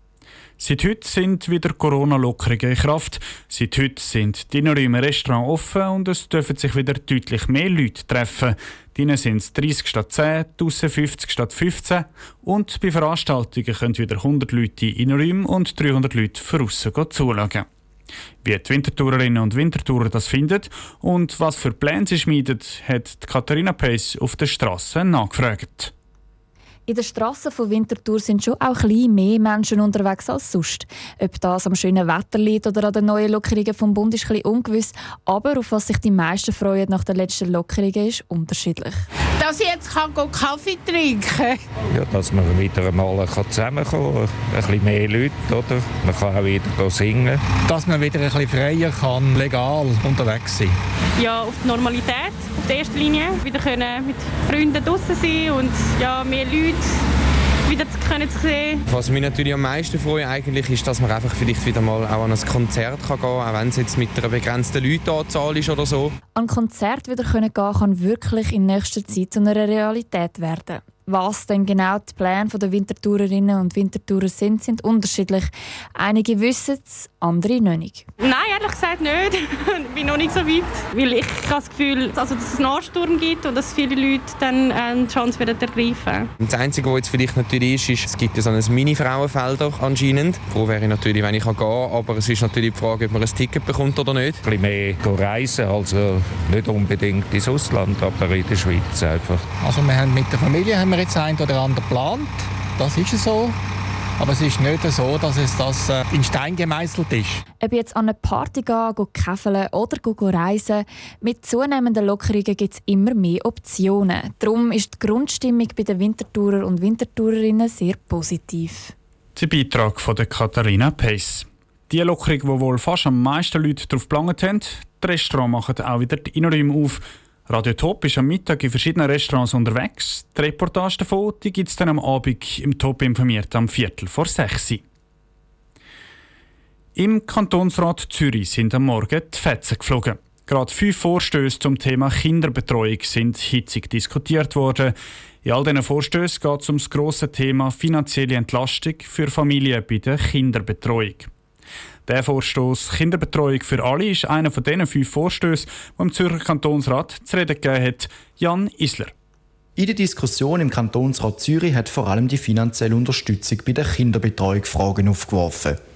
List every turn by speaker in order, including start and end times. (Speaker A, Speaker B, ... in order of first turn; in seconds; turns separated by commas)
Speaker A: 0.6-17.6, Speaker A: 18.4-25.9, Speaker B: 26.9-39.0, Speaker C: 39.4-41.6, Speaker D: 41.9-47.4, Speaker E: 47.6-50.7, Speaker F: 51.2-57.0, Speaker F: 57.7-58.8, Speaker G: 58.9-66.1, Speaker B: 66.3-78.0, Speaker F: 78.2-86.3, Speaker G: 86.4-94.5, Speaker D: 94.5-99.5, Speaker E: 99.6-103.5, Speaker E: 104.2-107.3, Speaker B: 107.6-118.9, Speaker A: 119.3-134.8, Speaker A: 136.9-151.3, Speaker A: 152.1-159.1, Speaker H: 159.8-165.8